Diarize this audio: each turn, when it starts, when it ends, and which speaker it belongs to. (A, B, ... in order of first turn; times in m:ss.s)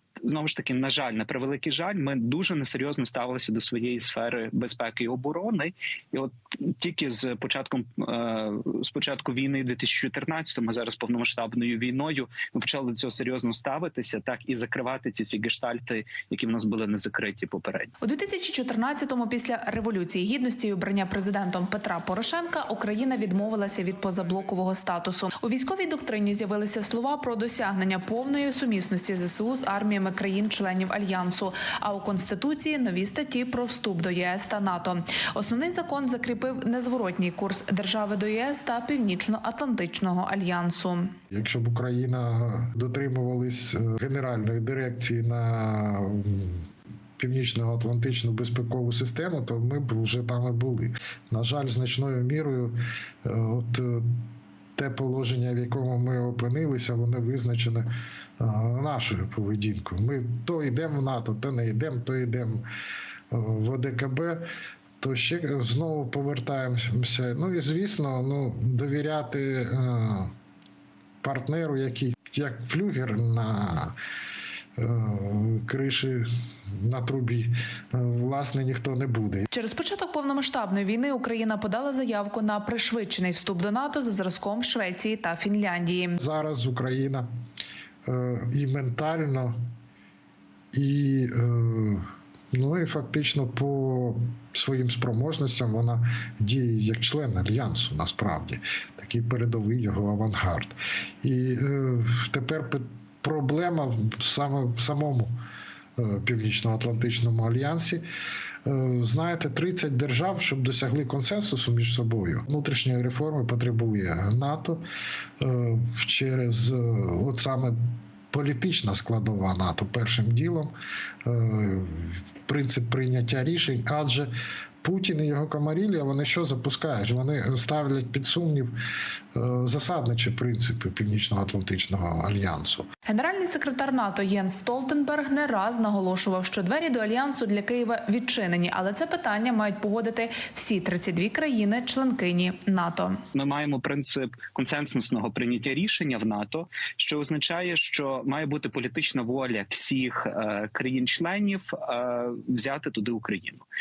0:00.2-0:17.9 A
0:18.0-0:41.1 B
0:41.3-0:46.6 C
0:47.2-0:54.2 C
0:54.8-1:02.6 C
1:03.3-1:04.4 C
1:05.0-1:10.3 C
1:11.2-1:13.9 C
1:14.8-1:19.4 C
1:19.5-1:26.2 B
1:26.2-1:27.3 C
1:28.0-1:29.6 C
1:30.7-1:45.3 C
1:46.0-1:48.0 C
1:48.6-1:54.8 C
1:55.4-1:57.8 C
1:58.3-2:00.7 C
2:01.2-2:04.3 C
2:04.8-2:08.7 C
2:09.3-2:12.9 C
2:13.1-2:23.2 B
2:23.3-2:33.6 A